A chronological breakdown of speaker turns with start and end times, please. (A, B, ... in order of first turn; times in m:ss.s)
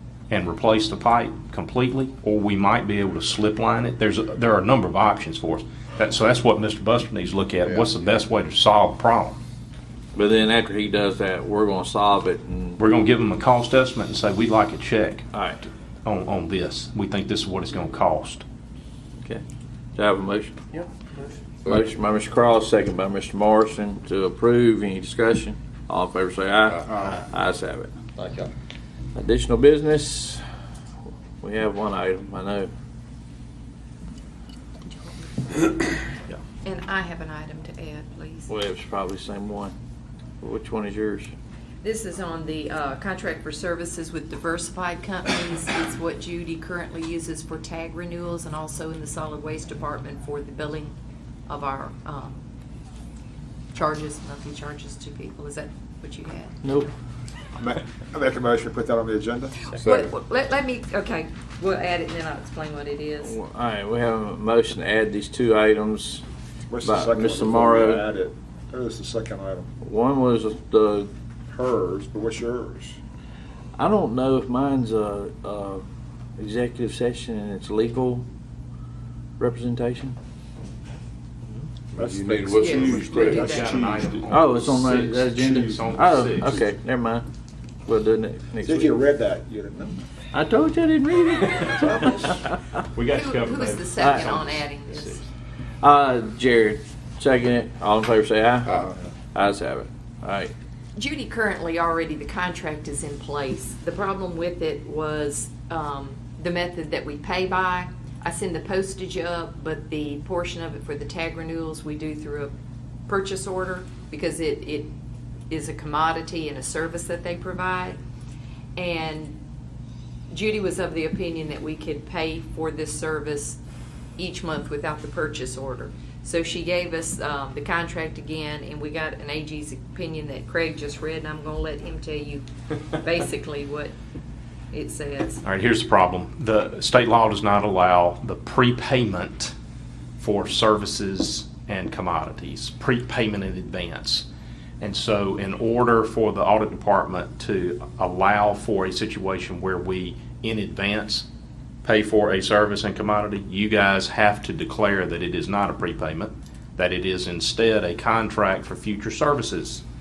0:00.3-0:09.4 A
0:10.1-0:12.8 B
0:12.8-0:15.3 A
0:15.3-0:15.6 B
0:16.0-0:18.4 A
0:20.0-0:20.8 B
0:21.6-0:28.0 B
0:28.2-0:28.4 C
0:29.1-0:30.4 B
0:31.4-0:32.7 B
0:34.9-0:35.9 D
0:36.6-0:38.5 D
0:38.5-0:39.7 B
0:40.4-0:41.3 B
0:41.8-0:50.9 D
0:51.5-0:52.4 D
0:53.7-0:56.6 D
0:56.6-0:56.9 B
0:57.6-0:59.5 E
0:59.7-1:00.1 C
0:59.8-1:03.4 D
1:03.2-1:06.2 B
1:06.7-1:09.7 E
1:06.8-1:08.1 B
1:09.8-1:11.1 B
1:11.5-1:13.0 E
1:13.8-1:15.8 B
1:16.4-1:18.2 B
1:19.4-1:20.2 B
1:21.9-1:23.5 C
1:22.5-1:23.8 D
1:23.0-1:26.6 A
1:23.5-1:24.2 E
1:24.3-1:27.3 B
1:27.8-1:29.0 B
1:28.6-1:30.0 E
1:30.3-1:32.5 B
1:31.6-1:32.3 A
1:32.9-1:35.2 A
1:33.1-1:35.2 D
1:34.0-1:34.4 B
1:35.8-1:38.8 B
1:39.3-1:40.5 B
1:41.0-1:52.5 D
1:53.1-1:54.9 D
1:55.5-1:58.0 D
1:58.8-1:59.4 D
2:00.3-2:03.6 D
2:04.2-2:13.9 D
2:14.7-2:15.4 D
2:15.4-2:19.5 A
2:20.2-2:24.2 A
2:24.8-2:31.2 A
2:31.8-2:39.8 A